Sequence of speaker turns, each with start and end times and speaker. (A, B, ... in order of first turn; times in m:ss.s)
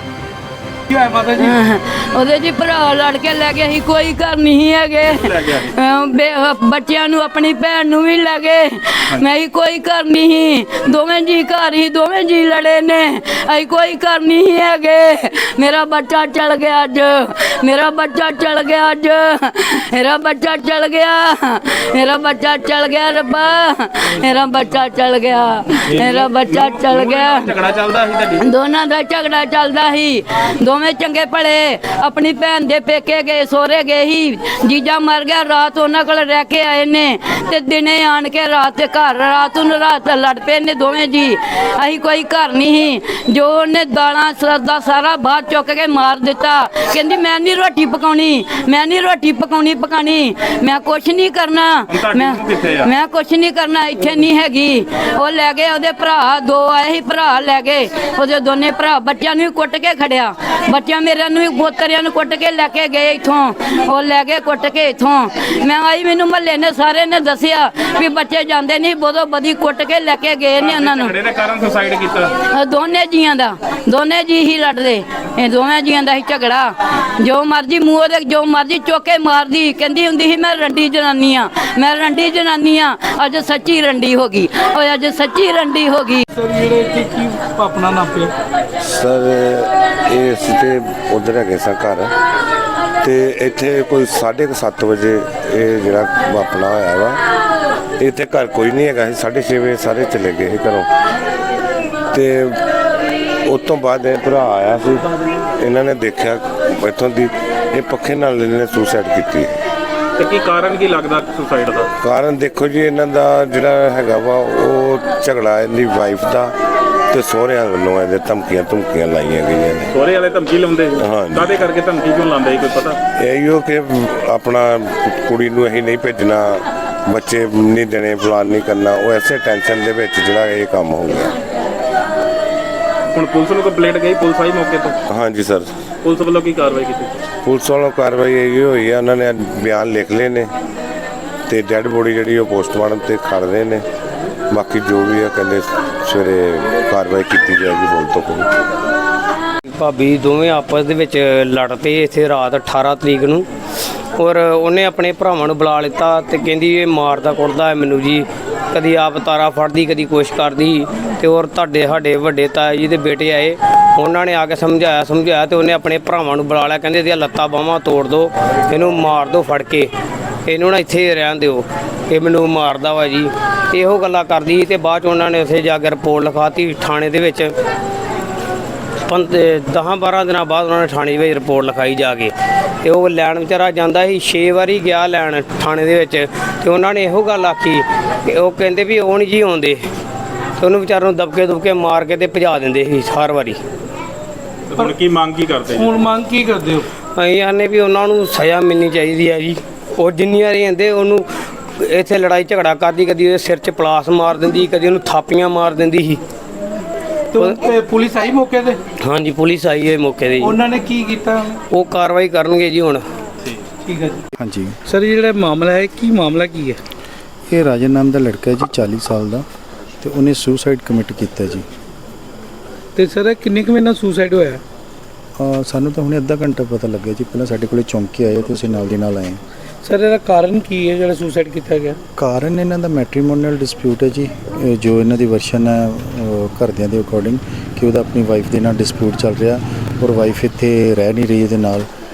0:00.9-0:01.6 A
0:01.3-0:27.5 B
0:05.1-0:05.7 C
0:25.9-0:28.4 C
0:28.4-1:11.1 B
0:51.9-0:52.9 C
1:10.6-1:12.3 C
1:12.5-1:26.2 B
1:26.3-1:28.3 A
1:28.8-1:32.1 D
1:33.0-1:37.2 D
1:38.0-1:40.9 D
1:42.1-1:42.6 D
1:43.4-1:49.6 D
1:50.2-1:51.9 C
1:52.0-1:56.5 D
1:57.1-1:59.9 D
1:59.9-2:03.0 C
2:01.0-2:01.7 D
2:03.1-2:11.3 D
2:13.1-2:15.0 C
2:15.1-2:15.7 D
2:16.0-2:17.2 C
2:17.4-2:20.5 D
2:21.5-2:23.8 D
2:24.5-2:28.5 D
2:29.7-2:33.4 E
2:34.2-2:49.9 E
2:50.4-2:57.5 E
2:59.0-3:09.8 E
3:10.6-3:13.6 E
3:14.7-3:16.0 C
3:15.7-3:16.9 A
3:17.1-3:26.2 E
3:27.3-3:28.8 A
3:27.4-3:27.7 E
3:29.0-3:30.6 E
3:30.4-3:31.6 A
3:31.7-3:33.0 E
3:33.8-3:34.3 A
3:34.4-3:34.8 F
3:34.9-3:36.8 A
3:37.5-3:39.4 F
3:40.0-3:41.6 F
3:43.0-3:44.6 A
3:45.4-3:49.4 F
3:49.8-3:52.0 A
3:52.2-4:01.9 F